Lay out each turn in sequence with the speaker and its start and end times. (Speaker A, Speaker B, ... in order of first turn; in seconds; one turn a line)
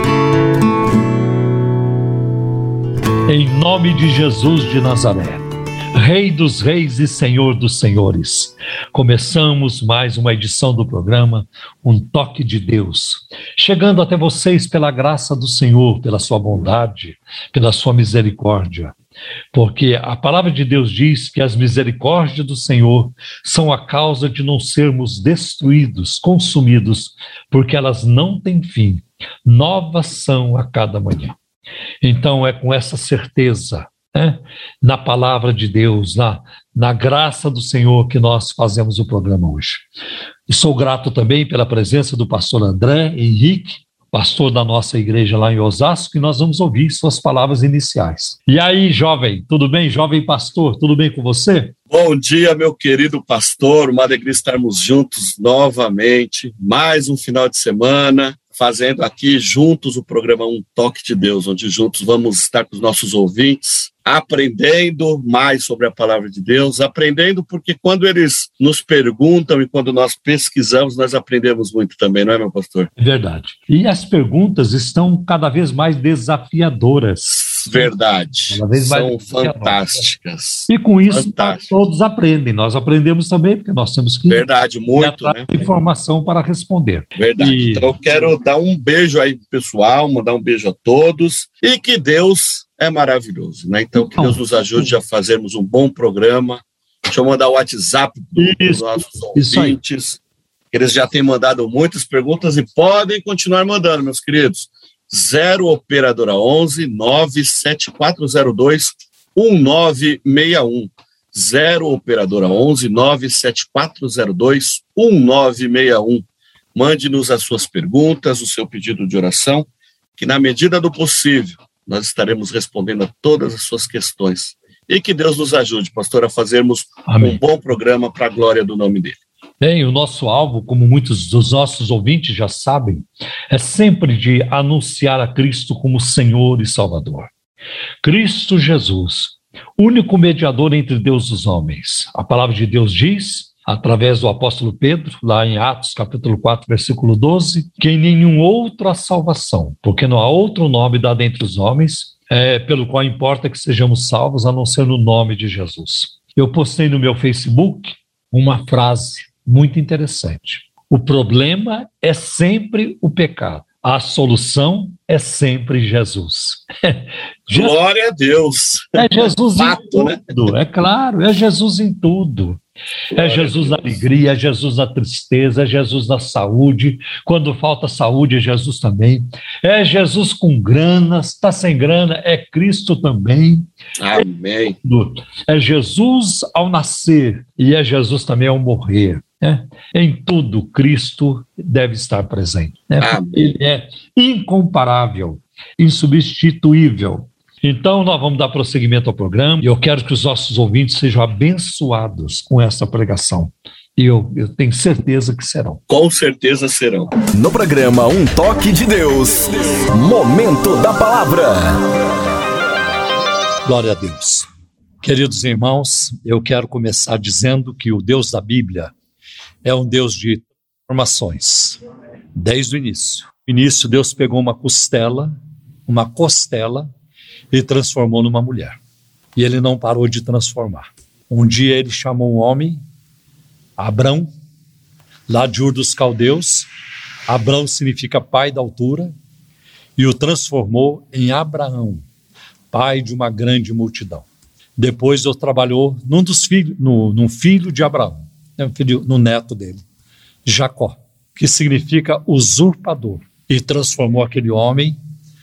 Speaker A: 3.3-18.9
Speaker A: 19.5-31.4
Speaker A: 32.0-39.9
Speaker A: 40.5-51.7
Speaker B: 51.9-72.9
Speaker A: 73.0-77.9
Speaker B: 77.7-81.8
Speaker A: 78.5-80.0
Speaker A: 80.7-87.9
Speaker B: 84.3-85.7
Speaker B: 87.2-100.2
Speaker A: 94.0-94.8
Speaker A: 98.4-99.8
Speaker B: 100.7-129.2
Speaker A: 127.0-127.4
Speaker A: 129.6-137.3
Speaker A: 138.0-167.7
Speaker B: 167.5-170.3
Speaker A: 168.9-172.6
Speaker B: 173.1-174.0
Speaker A: 173.1-184.2
Speaker B: 184.0-184.8
Speaker A: 184.8-205.8
Speaker B: 193.0-193.4
Speaker B: 205.9-207.1
Speaker C: 207.3-211.8
Speaker A: 213.6-214.5
Speaker A: 215.0-218.9
Speaker A: 219.6-221.8
Speaker A: 222.3-225.3
Speaker A: 225.9-226.9
Speaker A: 227.5-228.8
Speaker A: 229.3-232.8
Speaker A: 233.8-234.3
Speaker A: 235.3-236.7
Speaker A: 237.3-239.1
Speaker A: 240.0-242.1
Speaker A: 242.7-244.2
Speaker A: 244.8-249.8
Speaker A: 250.4-255.0